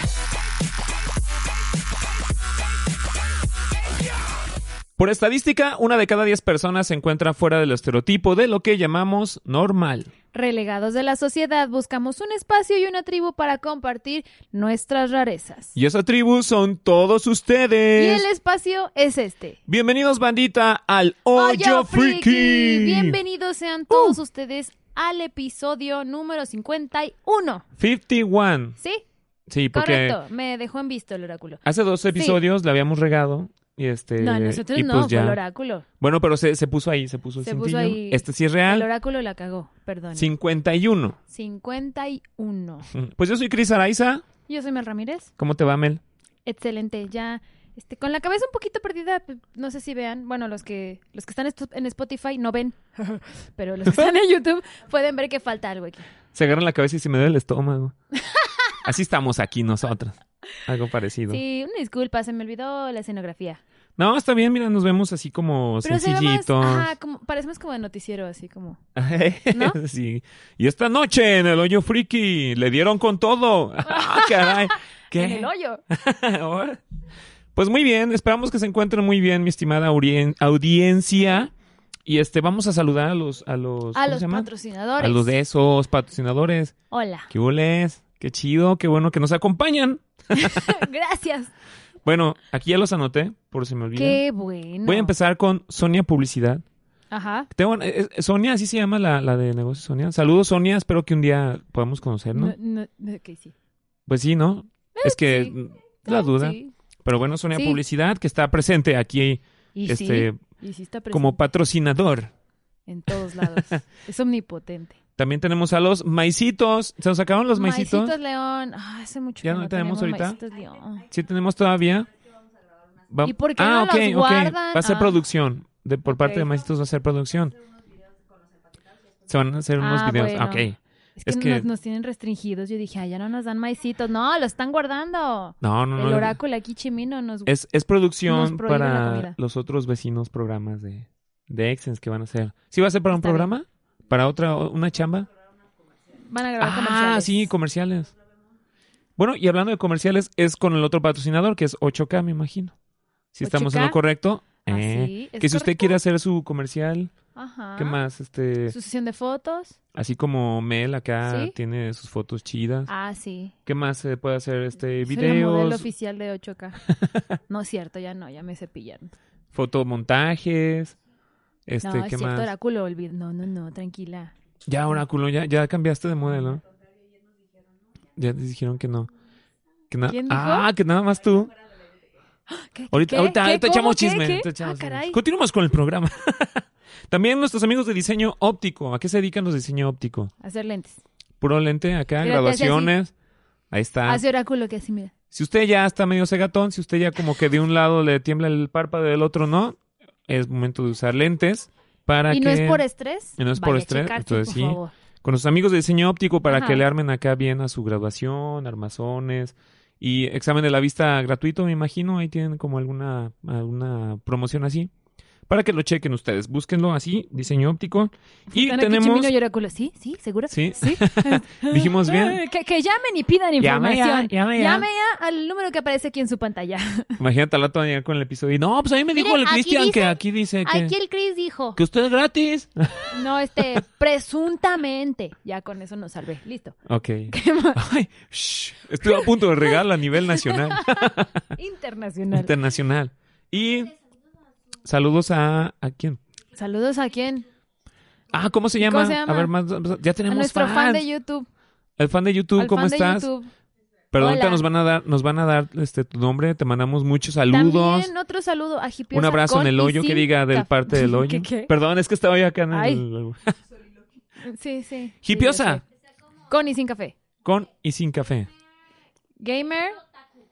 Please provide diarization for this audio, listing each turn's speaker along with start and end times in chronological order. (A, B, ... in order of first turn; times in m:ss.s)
0:05.0-0:10.1 A
0:10.3-0:15.8 B
0:15.8-0:18.3 A
0:18.0-0:19.6 B
0:19.7-0:23.2 A
0:21.3-0:27.6 B
0:23.9-0:24.2 A
0:27.8-0:28.8 A
0:28.8-0:29.0 B
0:29.5-0:30.2 A
0:29.7-0:32.4 B
0:31.6-0:35.4 A
0:34.2-0:35.8 B
0:36.0-0:38.9 A
0:37.4-0:40.3 B
0:40.1-0:41.2 A
0:41.3-0:42.9 B
0:42.9-0:44.2 A
0:44.5-0:45.3 B
0:45.4-0:46.0 A
0:46.4-0:56.1 B
0:56.3-0:58.0 A
0:58.2-0:58.5 B
0:58.8-1:01.4 A
1:01.3-1:03.6 B
1:04.0-1:06.9 A
1:05.8-1:08.8 B
1:09.0-1:16.8 A
1:13.8-1:15.8 B
1:17.6-1:21.5 A
1:22.1-1:24.5 A
1:24.0-1:25.3 B
1:25.0-1:26.7 A
1:26.9-1:27.3 B
1:27.3-1:30.8 A
1:30.3-1:31.5 B
1:32.0-1:34.2 A
1:34.0-1:35.1 B
1:34.8-1:36.6 A
1:37.1-1:37.5 B
1:37.5-1:42.6 A
1:42.3-1:43.5 B
1:44.1-1:50.4 A
1:44.9-1:46.7 B
1:47.5-1:47.8 B
1:49.8-1:51.4 B
1:51.1-1:52.3 A
1:52.9-1:55.0 B
1:53.1-1:53.8 A
1:55.2-1:58.2 A
1:57.6-2:01.1 B
1:59.4-2:00.4 A
2:01.1-2:02.1 A
2:03.1-2:07.6 A
2:03.2-2:05.2 B
2:06.1-2:06.5 B
2:09.3-2:11.7 A
2:09.8-2:10.7 B
2:11.2-2:17.5 B
2:15.6-2:16.4 A
2:17.5-2:25.3 A
2:18.3-2:19.4 B
2:23.1-2:23.5 B
2:26.2-2:27.5 B
2:26.6-2:28.1 A
2:29.2-2:32.7 A
2:33.3-2:37.1 A
2:33.4-2:34.0 B
2:34.7-2:36.0 B
2:37.4-2:38.0 B
2:37.8-2:38.8 A
2:38.7-2:39.8 B
2:39.9-2:42.9 A
2:41.2-2:41.5 B
2:42.9-2:43.5 B
2:43.7-2:45.9 A
2:45.0-2:46.9 B
2:46.9-2:47.4 A
2:47.5-2:49.2 B
2:49.5-2:51.0 A
2:51.7-2:52.5 A
2:51.8-2:54.3 B
2:54.7-2:56.6 A
2:58.2-2:59.1 A
2:59.9-3:01.5 A
3:00.1-3:00.7 B
3:02.5-3:05.2 B
3:02.9-3:10.3 A
3:10.4-3:11.0 B
3:11.4-3:13.1 A
3:12.2-3:12.9 B
3:13.7-3:14.2 A
3:14.1-3:15.1 B
3:15.3-3:22.8 A
3:22.3-3:24.9 B
3:23.4-3:34.9 A
3:26.5-3:26.8 B
3:35.5-3:39.3 A
3:38.5-3:47.2 B
3:40.5-3:42.4 A
3:43.6-3:44.9 A
3:47.2-3:51.0 A
3:49.2-3:51.8 B
3:51.8-3:53.1 A
3:53.1-3:56.8 B
3:56.8-4:01.4 A
3:57.3-3:57.8 B
3:59.1-4:02.5 B
4:02.3-4:04.0 A
4:04.8-4:06.2 A
4:06.5-4:07.4 B
4:08.3-4:11.1 A
4:08.8-4:09.5 B
4:10.3-4:11.5 B
4:12.0-4:13.3 A
4:12.6-4:13.5 B
4:14.1-4:18.1 A
4:14.2-4:14.6 B
4:17.5-4:21.7 B
4:19.1-4:23.5 A
4:22.7-4:23.0 B
4:24.4-4:25.8 B
4:25.2-4:25.8 A
4:26.5-4:27.2 B
4:27.4-4:28.5 A
4:29.4-4:30.0 B